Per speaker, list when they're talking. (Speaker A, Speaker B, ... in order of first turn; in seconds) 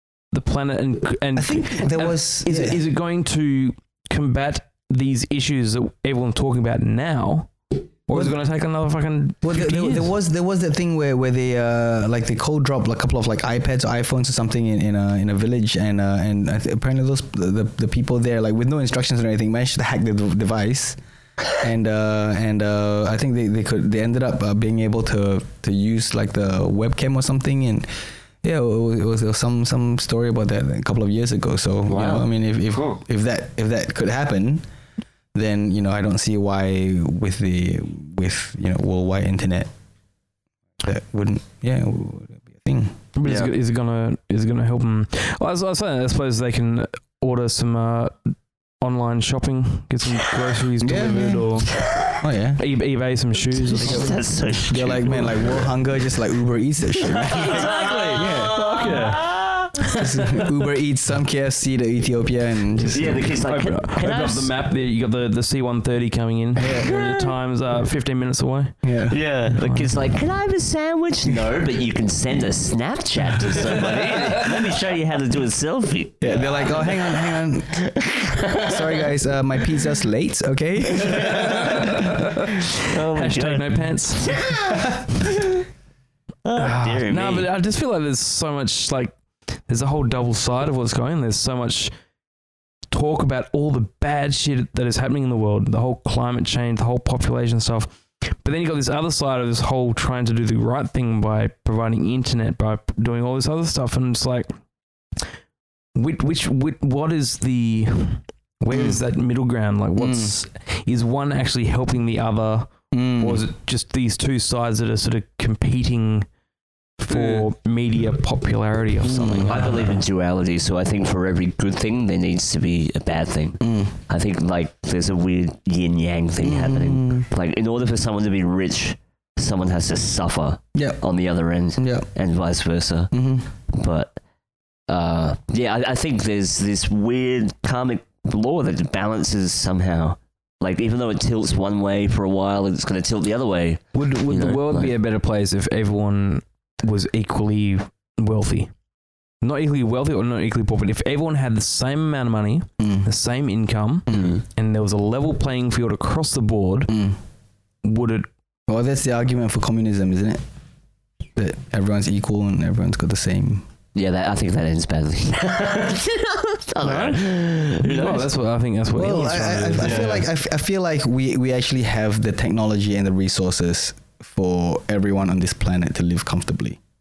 Speaker A: 0.3-10.1, 43.1-48.3, 48.8-51.9, 52.6-54.2, 57.4-60.4, 62.8-68.9, 69.5-70.0, 73.5-74.2, 81.4-84.4, 86.6-89.2, 89.7-91.9, 92.9-104.5, 105.9-116.2, 117.0-120.0, 143.9-148.7, 149.4-156.9, 157.8-158.3, 166.8-170.2
Speaker B: 1.4-2.8, 8.1-8.3, 9.4-21.0, 21.6-27.9, 28.4-34.6, 35.3-39.7, 40.8-43.0, 50.8-51.6, 52.2-52.6, 53.8-58.6, 59.9-63.3, 66.5-67.1, 68.8-69.2, 76.2-77.9, 78.5-81.9, 108.7-109.0, 110.0-110.3, 112.9-113.4, 117.1-117.4, 119.0-119.7, 123.6-123.9, 126.4-127.3, 130.7-131.0, 131.8-132.1, 133.1-133.5, 152.8-153.1, 156.9-157.2, 158.7-160.4, 161.3-163.6, 168.9-176.8
Speaker C: 31.9-33.0, 43.2-43.5, 53.8-55.6, 57.1-60.0, 62.9-64.5, 66.7-67.3, 69.1-77.2, 77.8-79.0, 81.0-81.8, 82.8-85.0, 86.4-87.5, 119.4-133.1, 133.7-134.2, 134.9-144.9, 154.1-154.4, 163.9-168.3, 169.8-170.2